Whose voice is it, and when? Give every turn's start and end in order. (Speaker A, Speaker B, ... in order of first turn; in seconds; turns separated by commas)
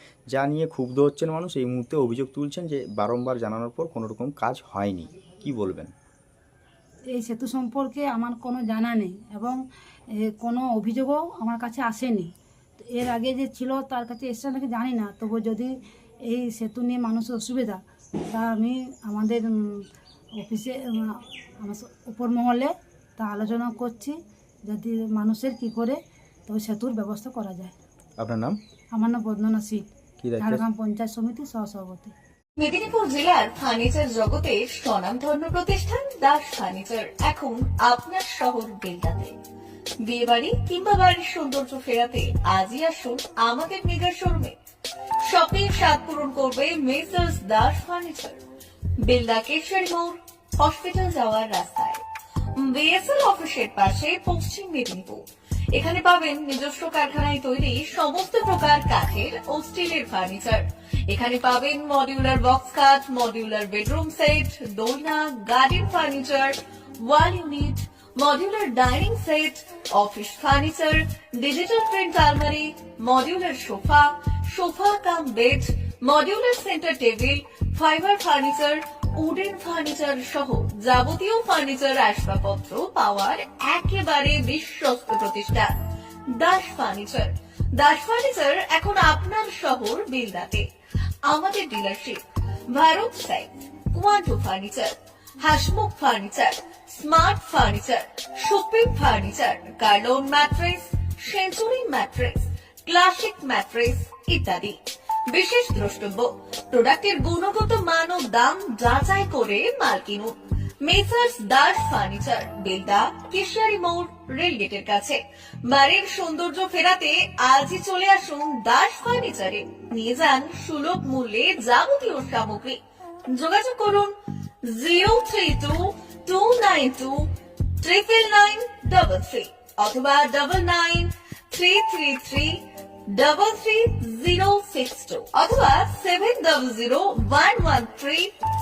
Speaker A: 0.3-5.9, Speaker B: 7.1-9.6, Speaker B: 10.2-12.3, Speaker B: 12.8-15.7, Speaker B: 16.3-17.8, Speaker B: 18.3-19.6, Speaker B: 20.4-27.7, Speaker A: 28.2-28.6, Speaker B: 28.9-32.1, Speaker A: 30.2-30.6, Speaker C: 32.6-39.3, Speaker C: 40.0-44.5, Speaker C: 45.2-48.4, Speaker C: 49.0-52.0, Speaker C: 52.5-55.2, Speaker C: 55.7-85.7, Speaker C: 86.3-90.6, Speaker C: 91.3-122.8, Speaker C: 123.3-124.1, Speaker C: 124.7-127.2, Speaker C: 127.8-132.6, Speaker C: 133.1-138.3